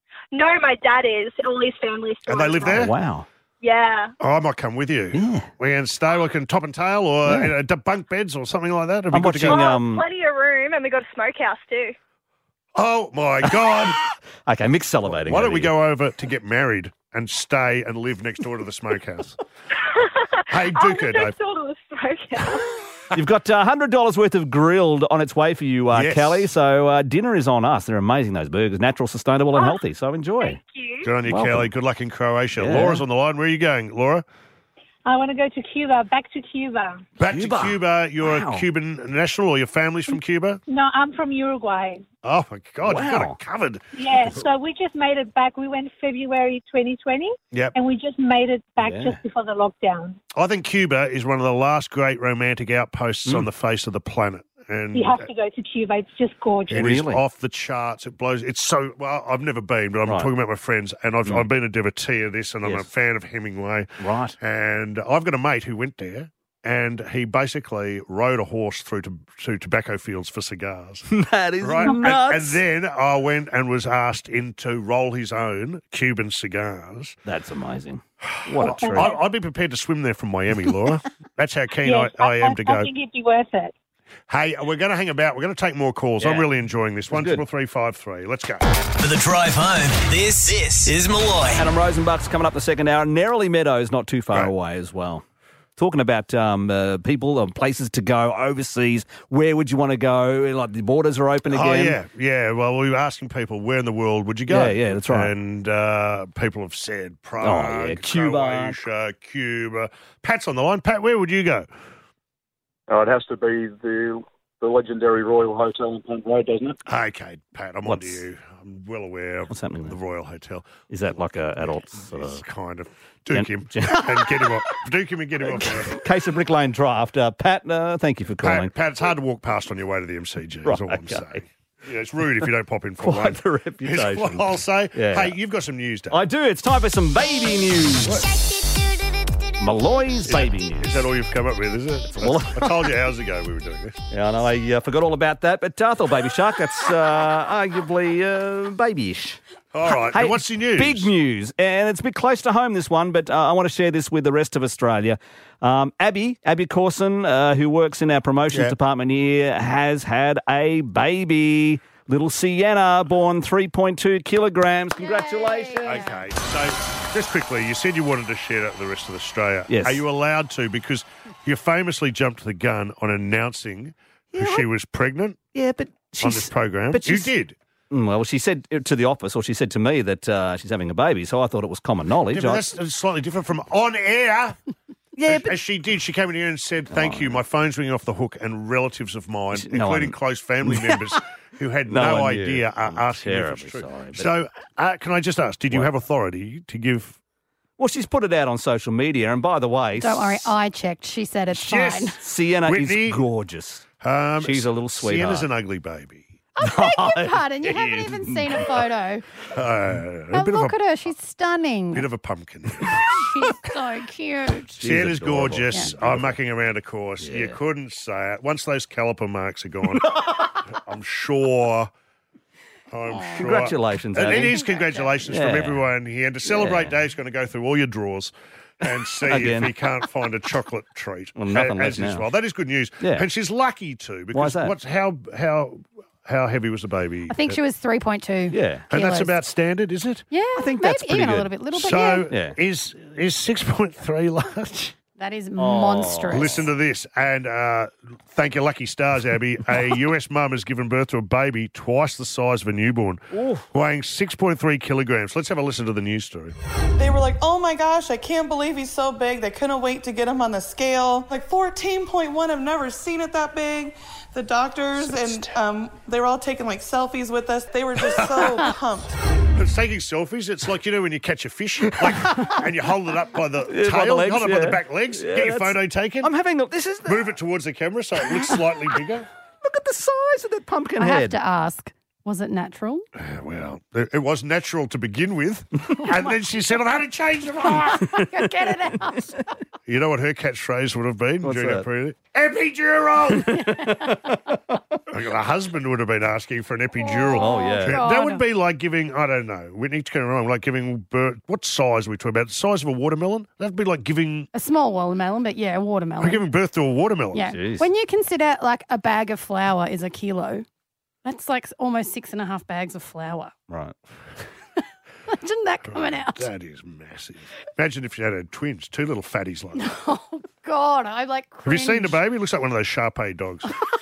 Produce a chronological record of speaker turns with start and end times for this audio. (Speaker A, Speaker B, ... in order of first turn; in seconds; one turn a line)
Speaker A: 2.1-2.8
Speaker B: 2.2-2.9
Speaker C: 2.6-3.2
Speaker B: 4.2-9.7
Speaker C: 5.1-5.5
Speaker C: 7.2-7.5
Speaker C: 9.1-10.1
Speaker B: 12.7-14.0
Speaker C: 13.4-15.7
Speaker B: 15.2-19.4
Speaker B: 20.5-21.4
Speaker A: 20.7-22.6
Speaker C: 23.1-30.6
Speaker B: 25.9-26.5
Speaker A: 30.4-31.0
Speaker B: 31.0-34.2
Speaker C: 31.3-31.7
Speaker C: 32.6-33.0
Speaker A: 35.1-37.0
Speaker B: 37.2-40.6
Speaker C: 37.3-38.6
Speaker A: 40.7-42.0
Speaker B: 42.2-44.2
Speaker C: 42.8-43.4
Speaker A: 44.0-50.2
Speaker C: 48.8-49.2
Speaker B: 50.3-55.3
Speaker A: 54.9-56.8
Speaker C: 56.7-57.2
Speaker B: 56.7-71.0
Speaker C: 64.0-64.4
Speaker C: 71.1-72.6
Speaker B: 71.6-77.1
Speaker C: 77.2-79.1
Speaker B: 78.2-82.9
Speaker A: 78.6-79.2
Speaker A: 81.8-83.7
Speaker B: 84.3-88.6
Speaker C: 86.2-86.5
Speaker C: 87.1-87.4
Speaker D: 89.0-91.7
Speaker C: 91.5-95.2
Speaker C: 95.8-102.0
Speaker B: 101.5-111.7
Speaker C: 104.5-105.3
Speaker C: 107.4-108.8
Speaker E: 112.9-116.7
Speaker B: 116.9-120.7
Speaker C: 117.8-118.2
Speaker C: 119.5-119.9
Speaker C: 120.9-122.4
Speaker B: 121.6-126.0
Speaker C: 123.3-124.5
Speaker C: 125.4-128.7
Speaker B: 128.4-136.2
Speaker C: 130.6-131.4
Speaker C: 133.0-135.3
Speaker C: 136.1-138.2
Speaker C: 139.6-141.0
Speaker B: 140.3-144.0
Speaker C: 142.2-142.8
Speaker C: 144.1-149.4
Speaker B: 149.7-151.1
Speaker C: 150.1-166.1
Speaker F: 165.0-166.2
Speaker B: 165.8-175.4
Speaker C: 169.7-170.0
Speaker C: 174.3-174.6
Speaker C: 175.5-177.3
Speaker B: 176.2-177.5
Speaker C: 177.9-182.6
Speaker B: 182.3-184.6
Speaker C: 185.2-185.5
Speaker B: 185.2-197.2
Speaker C: 186.9-187.4
Speaker C: 189.5-190.1
Speaker C: 191.9-194.3
Speaker C: 197.8-200.5
Speaker F: 200.0-202.2
Speaker B: 201.5-202.1
Speaker C: 202.2-203.8
Speaker B: 202.7-203.2
Speaker B: 204.0-206.3
Speaker C: 204.4-205.4
Speaker F: 206.6-209.2
Speaker C: 206.6-208.8
Speaker B: 209.5-210.8
Speaker F: 210.3-212.1
Speaker B: 211.9-213.2
Speaker F: 213.1-214.7
Speaker B: 214.7-220.1
Speaker C: 214.8-216.3
Speaker C: 217.2-217.6
Speaker B: 220.7-221.9
Speaker B: 222.9-237.6
Speaker F: 223.1-223.5
Speaker C: 223.3-224.7
Speaker F: 224.3-225.1
Speaker C: 225.3-225.8
Speaker C: 226.4-226.9
Speaker C: 229.3-229.7
Speaker C: 231.4-232.2
Speaker C: 233.0-233.2
Speaker C: 234.3-234.7
Speaker F: 237.3-239.3
Speaker C: 238.5-238.9
Speaker B: 238.9-240.2
Speaker F: 240.3-242.3
Speaker C: 240.6-241.5
Speaker B: 241.7-244.9
Speaker C: 242.3-242.5
Speaker F: 245.1-246.7
Speaker C: 245.6-246.6
Speaker B: 246.3-256.5
Speaker C: 253.3-253.7
Speaker G: 257.0-269.1
Speaker B: 269.6-276.3
Speaker C: 273.7-277.2
Speaker B: 277.1-279.3
Speaker C: 279.6-281.4
Speaker F: 281.0-283.1
Speaker B: 283.2-288.1
Speaker F: 287.6-289.5
Speaker B: 289.9-293.5
Speaker C: 291.4-291.8
Speaker C: 293.6-294.8
Speaker F: 293.8-294.2
Speaker B: 295.1-304.5
Speaker F: 297.0-298.4
Speaker C: 297.4-298.1
Speaker F: 304.5-306.4
Speaker B: 306.2-307.5
Speaker F: 307.3-310.6
Speaker C: 307.5-307.9
Speaker F: 311.2-313.5
Speaker C: 313.7-313.9
Speaker F: 315.3-316.5
Speaker B: 315.9-319.9
Speaker F: 319.7-322.2
Speaker B: 321.6-323.7